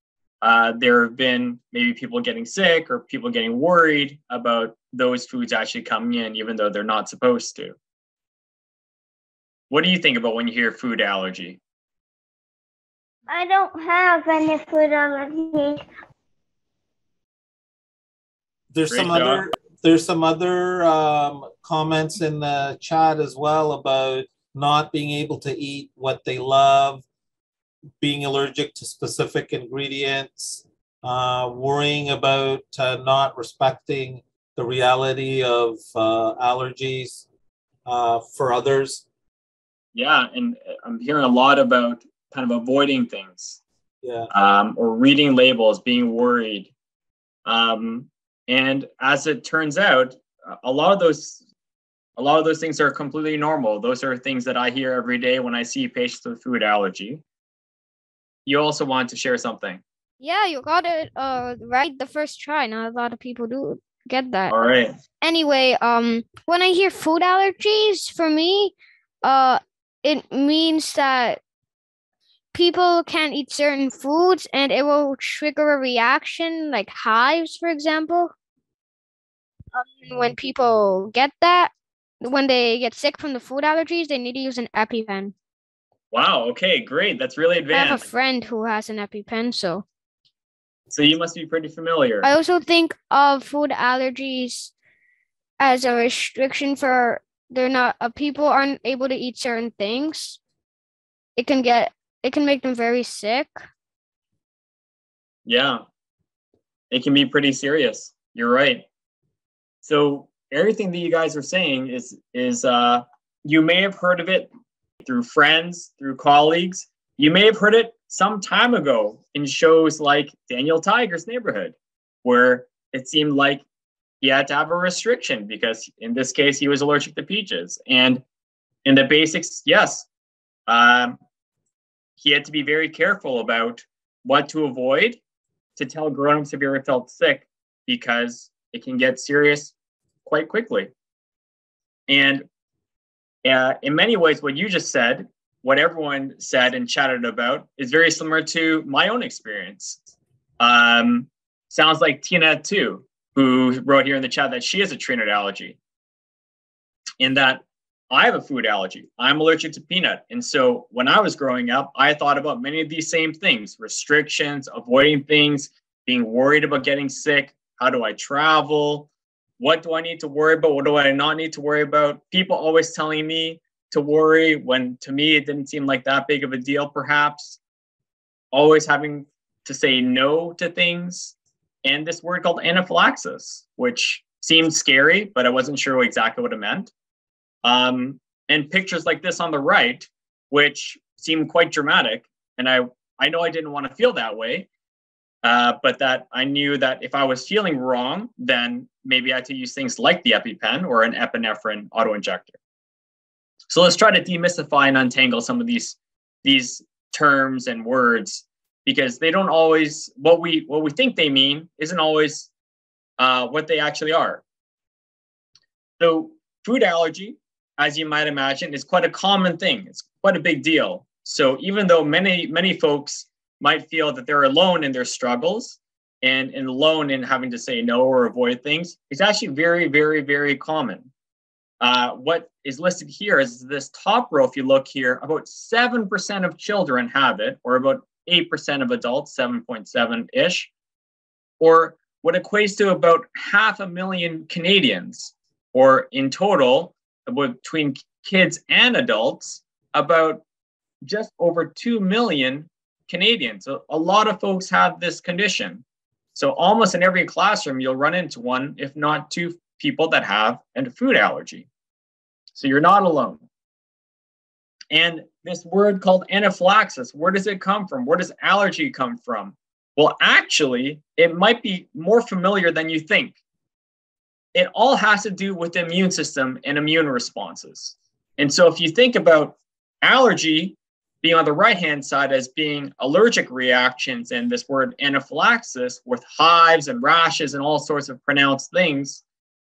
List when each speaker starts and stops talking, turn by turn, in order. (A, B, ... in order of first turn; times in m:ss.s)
0:00.4-0:07.8 A
0:09.7-0:11.6 A
0:13.3-0:15.8 B
0:18.7-0:27.0 C
0:18.9-0:19.4 A
0:28.0-0:37.3 C
0:37.9-0:39.0 C
0:39.9-0:43.6 A
0:44.0-0:44.3 C
0:44.3-0:46.7 A
0:47.5-0:51.4 A
0:52.2-0:57.2 A
0:58.5-0:59.8 A
1:00.2-1:04.6 D
1:04.5-1:04.9 A
1:05.2-1:11.4 D
1:12.5-1:18.3 D
1:19.8-1:25.3 D
1:26.1-1:28.0 A
1:27.7-1:29.8 D
1:30.9-1:32.3 A
1:32.2-1:34.7 D
1:35.6-1:40.4 D
1:41.4-1:43.6 D
1:45.5-1:45.8 A
1:46.9-1:48.8 A
1:49.8-1:54.5 A
1:55.0-2:03.6 A
2:04.2-2:08.2 A
2:08.8-2:10.1 A
2:10.7-2:11.2 A
2:12.2-2:15.2 A
2:15.8-2:19.7 A
2:20.2-2:20.9 A
2:22.1-2:22.5 A
2:23.4-2:30.0 A
2:30.6-2:35.8 A
2:37.2-2:57.6 A
2:58.5-3:06.9 A
3:07.6-3:14.7 A
3:15.4-3:22.6 A
3:23.7-3:32.5 A
3:33.2-3:34.4 A
3:36.0-3:51.1 A
3:51.8-4:00.7 A
4:01.6-4:10.4 A
4:11.0-4:15.8 A
4:16.4-4:21.7 A
4:22.6-4:23.4 A
4:24.9-4:33.4 A
4:34.5-4:49.2 A